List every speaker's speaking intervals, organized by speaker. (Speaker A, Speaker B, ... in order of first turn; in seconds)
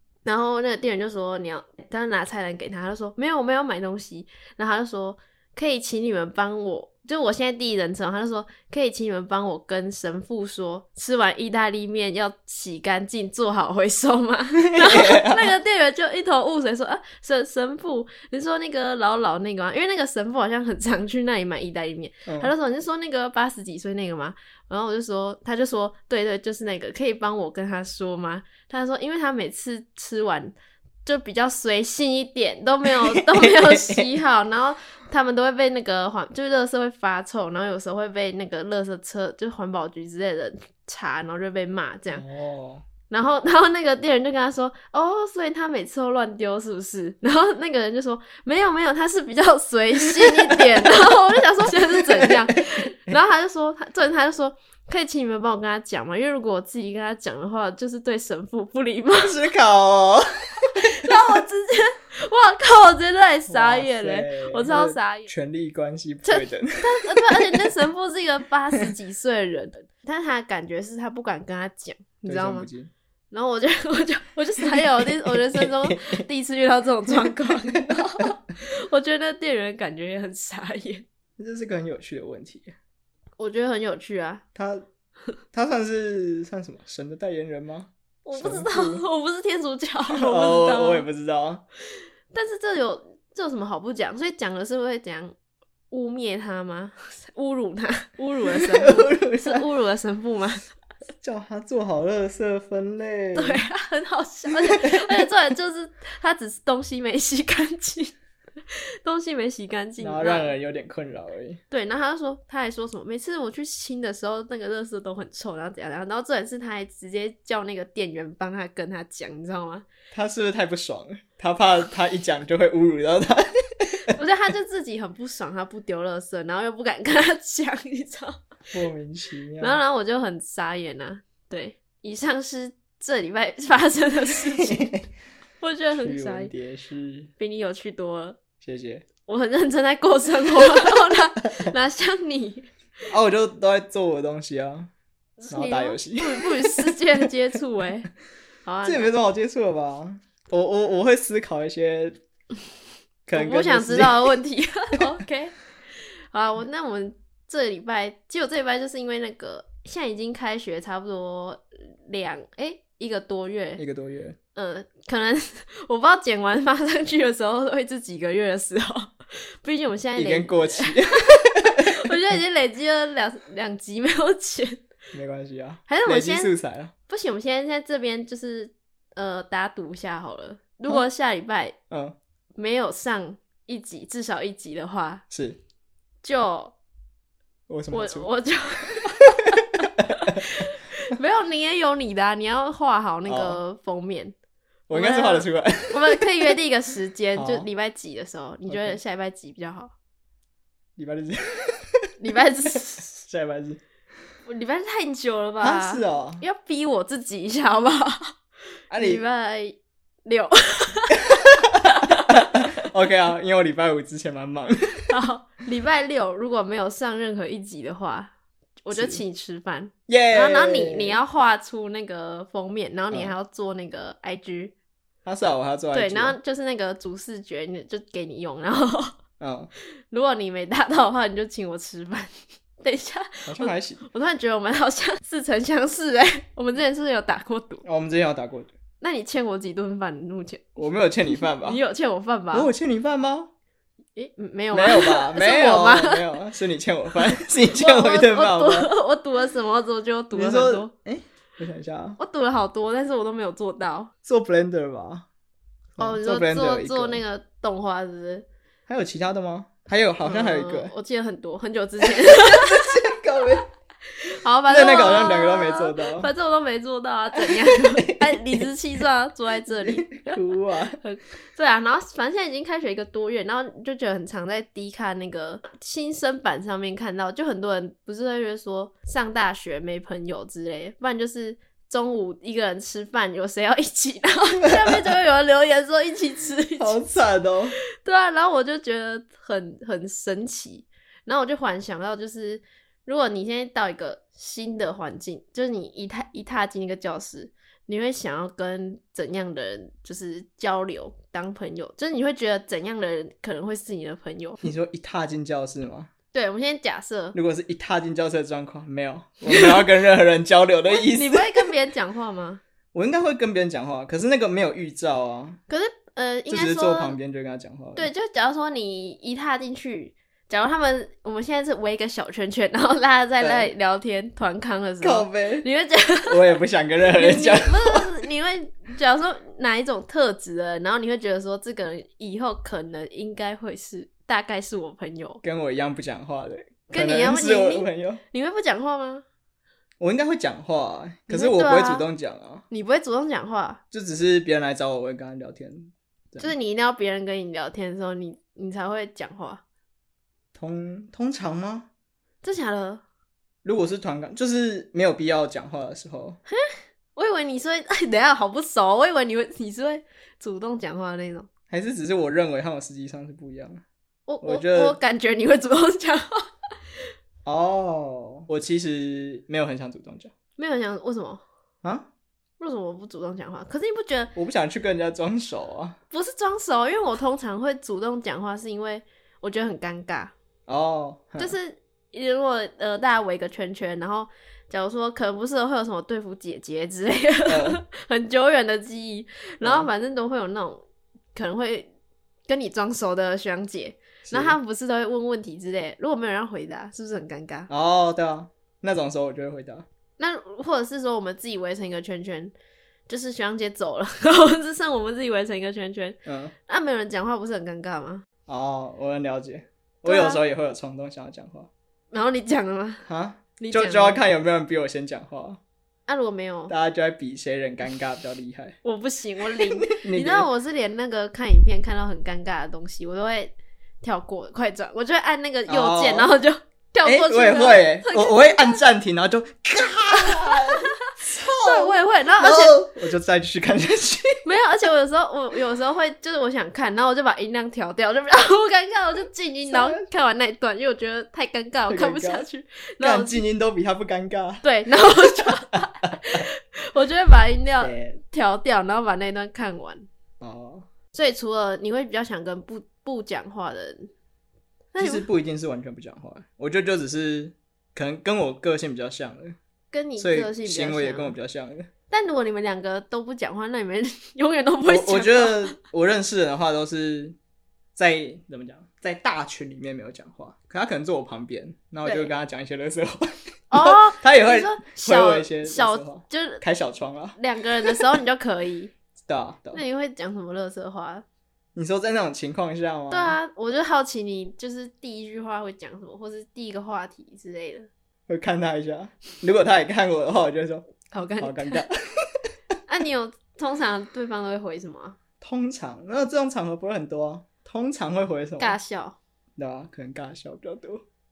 Speaker A: 0.2-42.2, 43.1-59.4, 60.8-65.3, 66.2-72.7, 73.3-81.1, 83.4-84.4, 88.2-91.1, 92.3-95.3, 95.9-100.7, 103.4-108.1, 109.0-110.5, 111.7-119.9, 124.1-128.4, 129.6-134.9, 135.6-136.5, 137.4-138.4, 139.3-142.7, 145.4-148.1, 148.7-149.1, 153.3-163.8, 164.6-174.8, 175.9-176.5, 177.1-181.8, 182.6-185.2, 186.2-186.8, 187.9-194.3, 194.9-199.9, 202.2-203.1, 204.5-208.4, 208.9-211.2, 211.9-212.7, 215.1-218.3, 218.8-224.7, 225.9-229.2, 230.1-237.8, 239.0-240.7, 241.6-242.7, 244.2-246.2, 247.8-250.9, 252.2-254.1, 256.0-258.5, 260.2-263.0, 264.4-270.4, 271.0-287.1, 288.0-304.6, 306.3-307.4, 310.9-312.6, 315.7-317.1, 318.0-326.4, 327.2-335.4, 336.9-339.2, 341.3-342.1, 342.7-343.8, 346.4-349.6, 352.4-353.0, 356.5-361.5, 364.3-366.5, 370.6-371.4, 372.6-374.3, 376.1-380.3, 381.4-390.8, 391.3-391.9, 392.5-397.7, 400.2-402.5, 403.1-408.2, 410.1-410.4, 412.1-413.1, 413.6-414.2, 416.1-416.7, 418.8-428.8, 430.2-432.8, 434.4-443.4, 444.6-450.1, 451.1-454.1, 454.9-455.3, 459.9-461.4, 462.1-465.8, 472.0-472.3, 473.7-476.6, 477.4-478.9, 479.7-481.2, 483.1-487.9, 491.1-491.9, 492.9-495.2, 498.6-499.2
Speaker B: 14.6-15.6, 22.3-22.5, 33.1-34.0, 42.1-42.9, 50.2-52.8, 59.1-61.1, 63.5-67.7, 72.3-72.9, 74.6-76.2, 77.2-78.2, 81.4-82.7, 84.5-84.8, 85.5-89.1, 90.1-91.6, 98.5-99.7, 101.2-103.7, 104.5-105.3, 110.0-111.6, 120.1-124.2, 128.7-129.8, 134.6-135.0, 135.9-137.3, 138.6-139.1, 143.1-144.9, 145.5-147.3, 148.8-152.2, 153.3-154.4, 163.8-164.4, 170.2-172.1, 175.1-176.9, 181.9-182.2, 185.3-185.6, 187.7-188.3, 189.2-189.5, 193.3-193.6, 194.9-196.3, 197.3-197.7, 198.7-199.0, 201.0-202.1, 203.0-203.8, 205.6-206.4, 208.9-209.2, 211.3-211.7, 212.3-215.1, 218.9-219.2, 220.1-221.2, 225.2-226.4, 229.4-229.7, 233.5-234.1, 237.8-238.7, 240.8-241.8, 242.5-243.5, 244.7-248.9, 250.3-252.2, 254.2-255.3, 256.0-257.2, 258.9-260.9, 262.0-263.7, 264.7-266.3, 267.4-268.7, 269.8-271.0, 284.7-285.2, 286.8-287.8, 304.6-306.1, 307.3-311.7, 312.9-315.6, 316.5-318.1, 323.4-323.7, 325.0-325.7, 326.3-328.1, 335.4-338.2, 340.0-342.6, 343.9-346.5, 350.6-351.9, 353.6-356.4, 361.7-363.8, 364.4-365.0, 367.4-370.3, 371.8-372.1, 374.4-376.0, 380.7-381.6, 387.5-387.8, 389.6-389.9, 394.2-394.6, 397.7-399.9, 406.2-406.5, 408.5-411.7, 413.1-415.6, 416.7-418.8, 419.6-420.5, 425.7-426.3, 427.0-434.4, 439.7-440.1, 441.9-442.5, 443.0-446.1, 447.8-448.2, 450.4-450.9, 455.0-459.6, 460.2-461.9, 464.9-467.4, 468.0-478.1, 479.3-479.8, 481.8-483.4, 488.3-490.9, 491.4-492.4, 495.4-498.8, 499.6-501.0